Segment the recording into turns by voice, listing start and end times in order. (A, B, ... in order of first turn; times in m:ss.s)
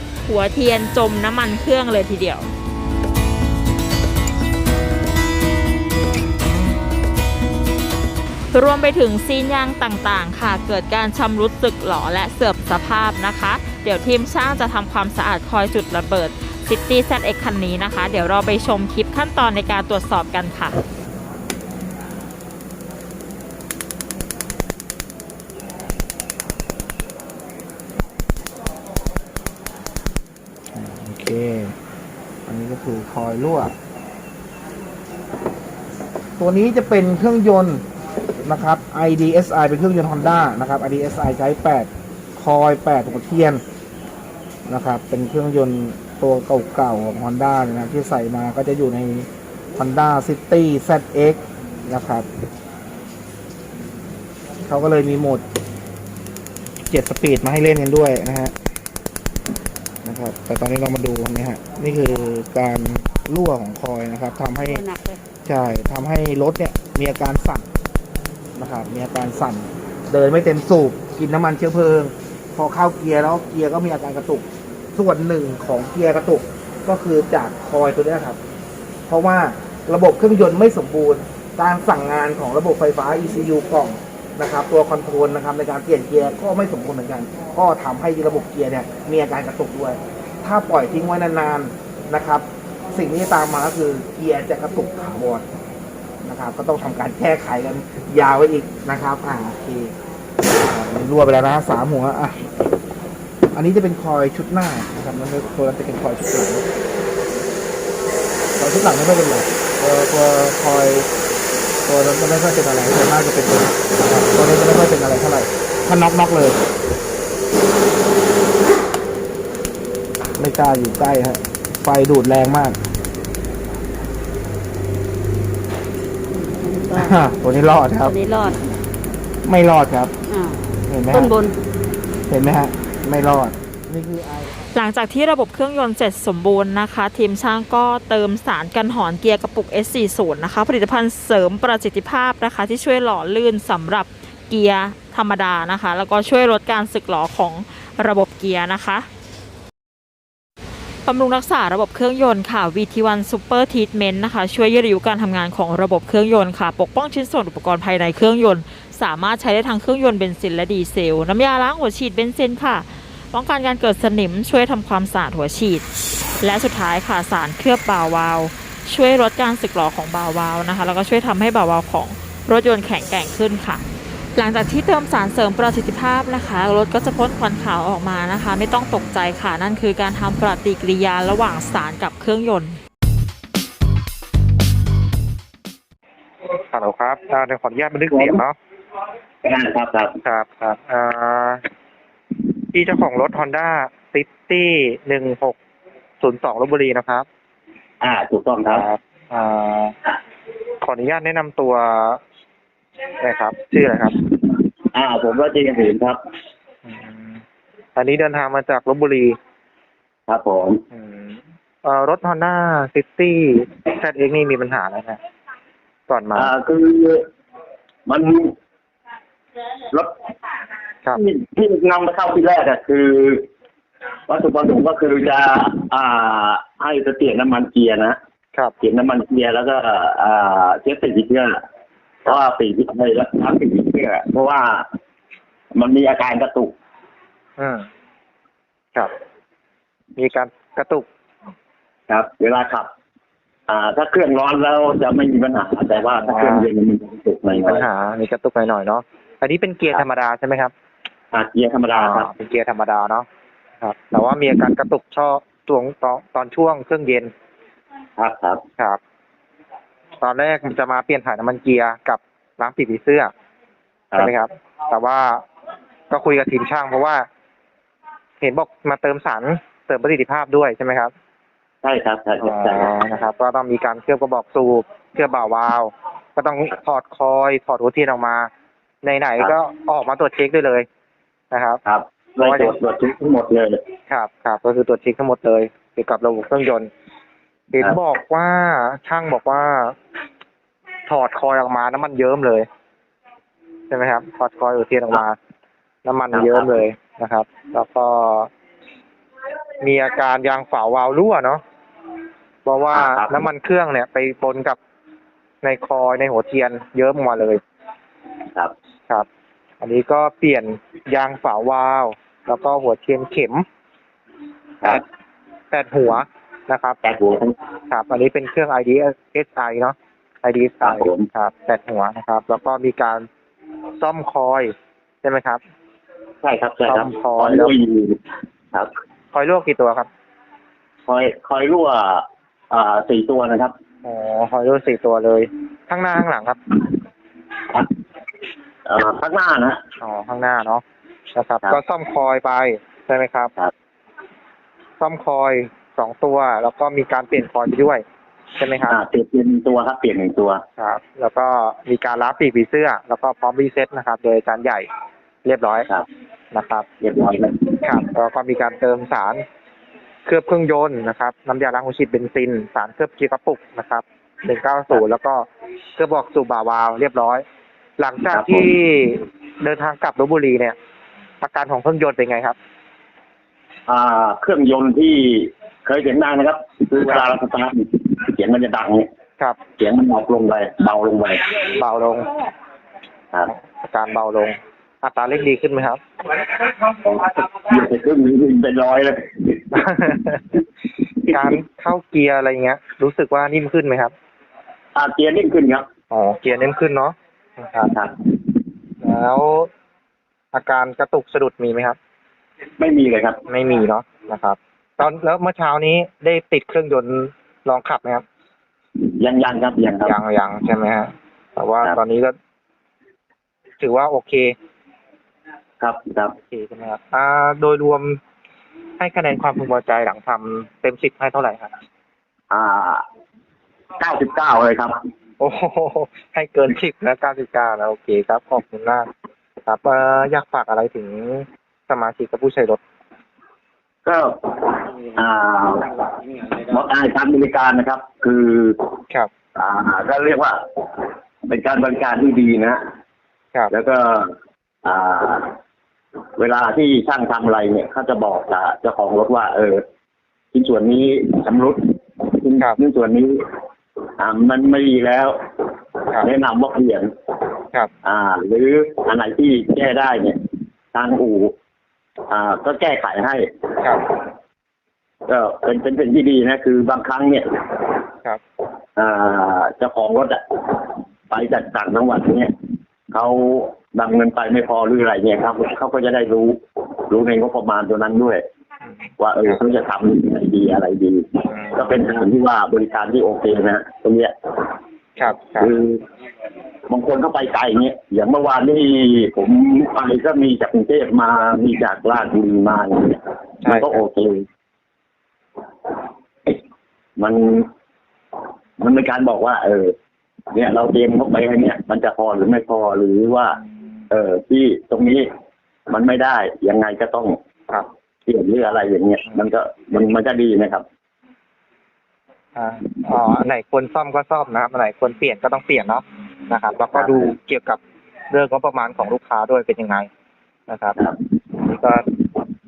0:00.2-0:02.5 A
0:08.5-0:20.8 A
0:30.7-0:31.7 B
0:32.5-0:33.7 B
0:36.4-0:37.8 B
0:38.4-0:43.6 B
0:44.6-0:52.3 B
0:54.7-0:55.4 B
0:56.9-0:58.5 B
1:00.0-1:04.8 B
1:04.6-1:05.2 C
1:05.4-1:07.7 B
1:08.6-1:18.4 B
1:19.1-1:35.4 B
1:36.2-1:39.9 B
1:40.5-1:42.5 B
1:43.5-1:46.6 B
1:48.6-1:51.1 B
1:51.8-1:56.6 B
2:00.4-2:02.8 B
2:06.3-2:07.3 C
2:06.9-2:08.2 B
2:08.0-2:08.6 C
2:09.4-2:10.1 B
2:10.3-2:11.5 C
2:10.8-2:11.3 B
2:12.3-2:14.6 B
2:14.7-2:29.1 A
2:31.0-2:45.8 A
2:46.4-2:53.8 A
2:54.3-3:02.8 A
3:06.7-3:08.6 D
3:08.1-3:08.4 E
3:09.4-3:10.2 E
3:10.2-3:11.6 D
3:12.7-3:15.6 D
3:16.2-3:17.2 D
3:18.0-3:18.8 E
3:18.7-3:19.9 D
3:20.8-3:22.2 D
3:23.2-3:24.2 D
3:24.9-3:26.2 E
3:26.9-3:27.4 D
3:28.0-3:29.4 D
3:30.3-3:30.8 E
3:30.9-3:35.2 D
3:36.1-3:36.5 D
3:36.3-3:37.2 E
3:38.0-3:38.5 E
3:41.1-3:43.5 E
3:44.3-3:48.2 E
3:48.8-3:51.6 E
3:52.2-3:54.8 E
3:55.7-3:56.7 E
3:57.6-3:57.9 D
4:00.2-4:01.1 D
4:02.1-4:02.9 E
4:03.7-4:07.8 E
4:06.2-4:06.7 D
4:07.6-4:10.7 D
4:11.3-4:12.3 E
4:11.9-4:13.3 D
4:13.8-4:17.3 D
4:18.2-4:18.6 E
4:20.2-4:23.3 D
4:24.2-4:25.4 D
4:26.1-4:27.2 D
4:28.4-4:31.1 D
4:31.8-4:32.9 E
4:32.4-4:38.5 D
4:39.0-4:40.8 D
4:41.5-4:41.8 D
4:41.8-4:43.8 E
4:42.4-4:42.8 D
4:44.1-4:46.9 D
4:47.7-4:50.0 D
4:51.1-4:52.7 D
4:53.9-4:55.4 D
4:56.0-4:58.5 D
4:56.3-4:56.8 E
4:59.8-5:01.6 D
5:02.6-5:04.8 D
5:02.9-5:03.4 E
5:05.6-5:07.6 D
5:09.8-5:13.6 D
5:15.7-5:17.0 D
5:17.0-5:17.5 E
5:17.9-5:23.2 D
5:20.8-5:21.3 E
5:24.0-5:25.6 D
5:26.4-5:28.2 E
5:26.8-5:27.7 D
5:29.3-5:30.1 D
5:31.1-5:33.7 E
5:34.0-5:36.6 D
5:38.8-5:39.8 E
5:40.0-5:43.5 D
5:45.0-5:48.0 D
5:48.6-5:49.0 D
5:48.9-5:50.6 E
5:50.8-5:54.9 D
5:55.4-5:55.9 D
5:56.5-5:56.9 D
5:57.0-5:58.0 E
5:57.8-5:59.4 D
6:00.2-6:05.4 D
6:06.0-6:07.4 D
6:08.0-6:10.8 D
6:08.3-6:08.7 E
6:11.4-6:12.6 D
6:13.9-6:19.1 E
6:19.8-6:21.5 E
6:21.7-6:22.3 D
6:23.6-6:26.0 D
6:26.6-6:29.8 E
6:29.7-6:30.5 D
6:31.3-6:34.1 D
6:34.9-6:35.9 E
6:36.1-6:37.9 D
6:39.0-6:39.7 D
6:40.5-6:42.0 D
6:42.8-6:43.4 E
6:43.5-6:48.2 D
6:49.0-6:50.1 E
6:50.0-6:52.3 D
6:53.8-6:54.5 D
6:55.8-6:56.3 E
6:56.4-6:58.2 D
6:59.0-7:01.7 D
7:02.5-7:03.0 E
7:04.0-7:05.0 E
7:05.4-7:09.1 D
7:09.6-7:12.8 D
7:14.0-7:18.8 E
7:19.6-7:22.8 E
7:23.7-7:25.5 E
7:26.4-7:29.8 E
7:30.5-7:33.4 E
7:34.2-7:35.4 E
7:36.2-7:37.1 E
7:38.0-7:40.4 E
7:40.9-7:41.5 E
7:42.3-7:43.7 E
7:45.3-7:48.0 E
7:49.0-7:52.5 E
7:53.1-7:58.4 E
7:59.2-8:04.3 E
8:01.5-8:01.8 D
8:05.2-8:05.7 D
8:05.6-8:06.0 E
8:06.9-8:14.4 E
8:13.6-8:14.0 D
8:17.2-8:17.7 E
8:18.8-8:19.9 E
8:20.5-8:23.6 E
8:24.1-8:25.3 E
8:25.9-8:27.4 E
8:28.2-8:30.8 E
8:32.6-8:40.1 D
8:36.9-8:37.2 E
8:40.7-8:41.0 D
8:41.6-8:42.0 D